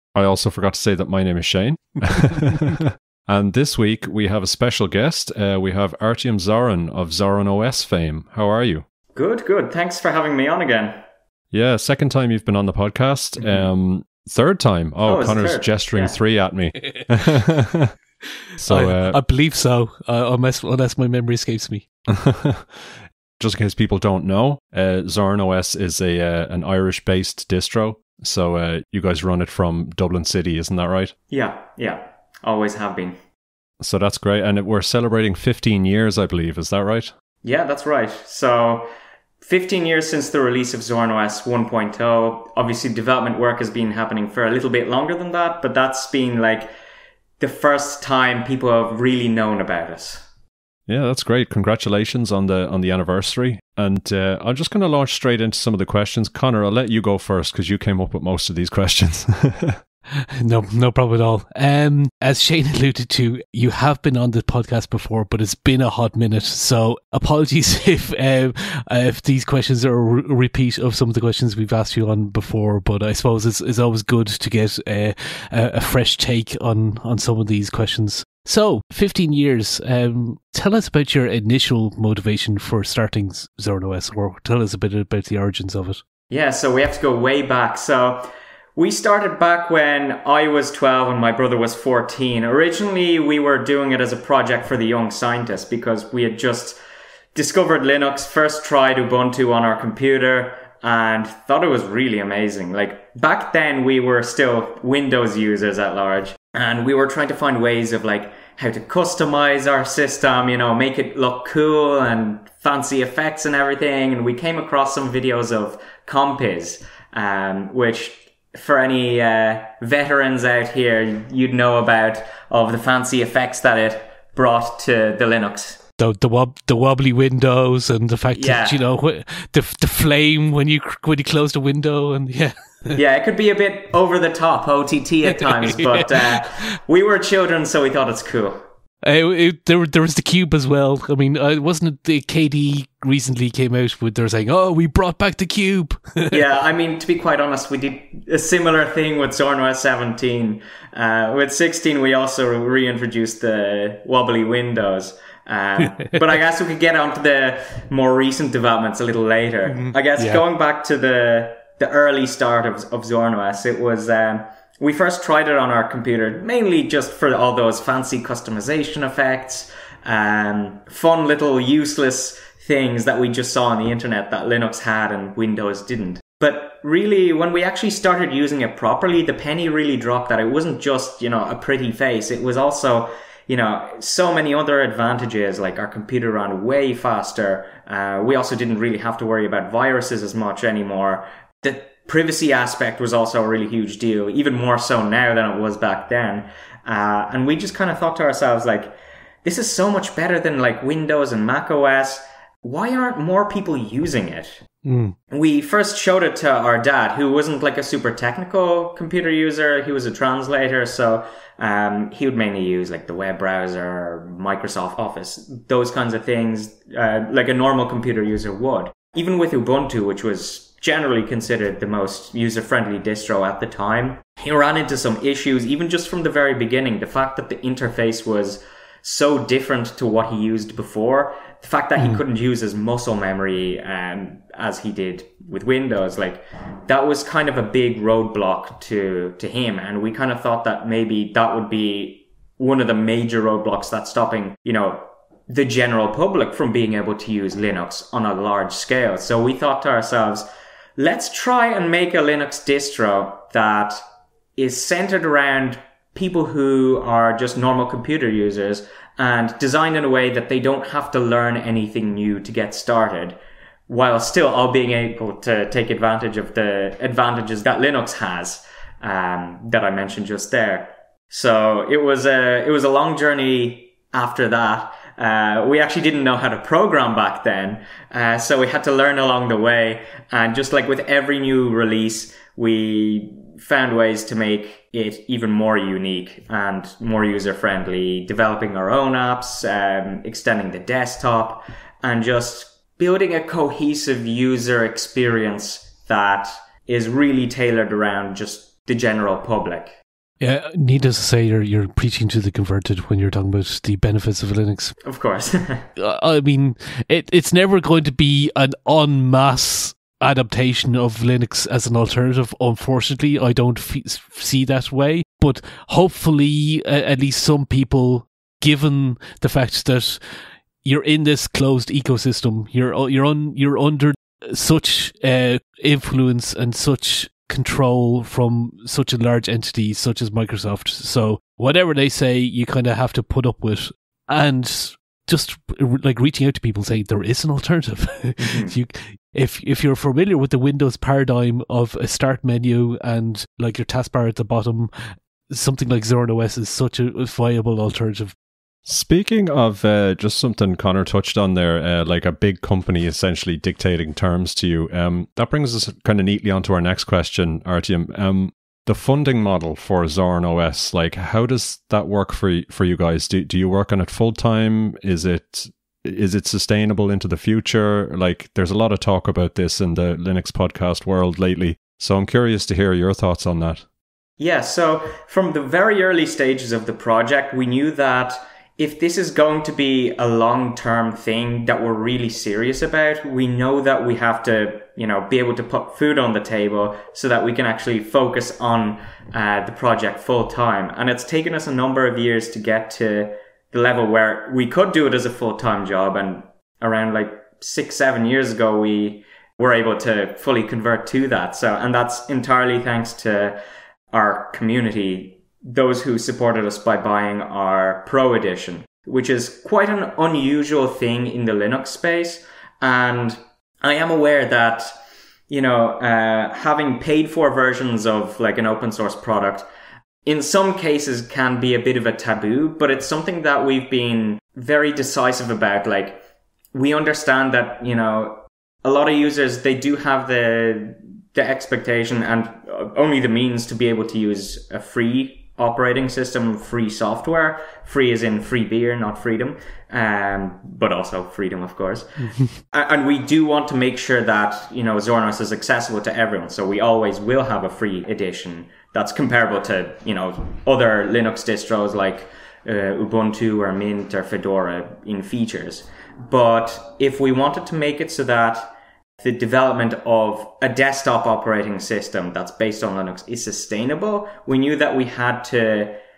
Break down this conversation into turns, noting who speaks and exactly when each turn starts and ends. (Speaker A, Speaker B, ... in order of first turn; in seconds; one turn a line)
Speaker A: 0.1-8.8
Speaker B: 9.1-11.0
Speaker A: 11.5-17.9
Speaker B: 13.4-13.7
Speaker B: 15.0-16.2
Speaker A: 18.6-19.2
Speaker C: 18.7-21.8
Speaker A: 22.1-31.1
Speaker B: 31.3-33.1
Speaker A: 33.8-37.1
Speaker B: 37.4-38.9
Speaker B: 39.4-46.7
Speaker B: 47.4-50.3
Speaker A: 50.9-59.8
Speaker C: 60.4-86.0
Speaker B: 86.3-96.8
Speaker B: 97.3-125.8
Speaker C: 126.0-133.0
Speaker B: 128.3-128.8
Speaker B: 132.9-138.6
Speaker C: 135.4-136.4
Speaker C: 139.0-146.4
Speaker B: 146.3-204.6
Speaker C: 155.8-156.2
Speaker C: 159.7-160.4
Speaker C: 204.8-205.1
Speaker B: 205.3-250.5
Speaker B: 251.0-254.0
Speaker B: 254.6-299.9
Speaker C: 300.4-304.9
Speaker B: 305.0-305.9
Speaker C: 306.0-320.2
Speaker C: 320.8-344.9
Speaker B: 338.4-338.8
Speaker C: 345.5-348.3
Speaker A: 348.9-373.8
Speaker B: 374.4-403.6
Speaker B: 404.1-414.9
Speaker B: 415.5-419.7
Speaker B: 420.2-426.2
Speaker B: 426.7-465.9
Speaker C: 442.2-442.5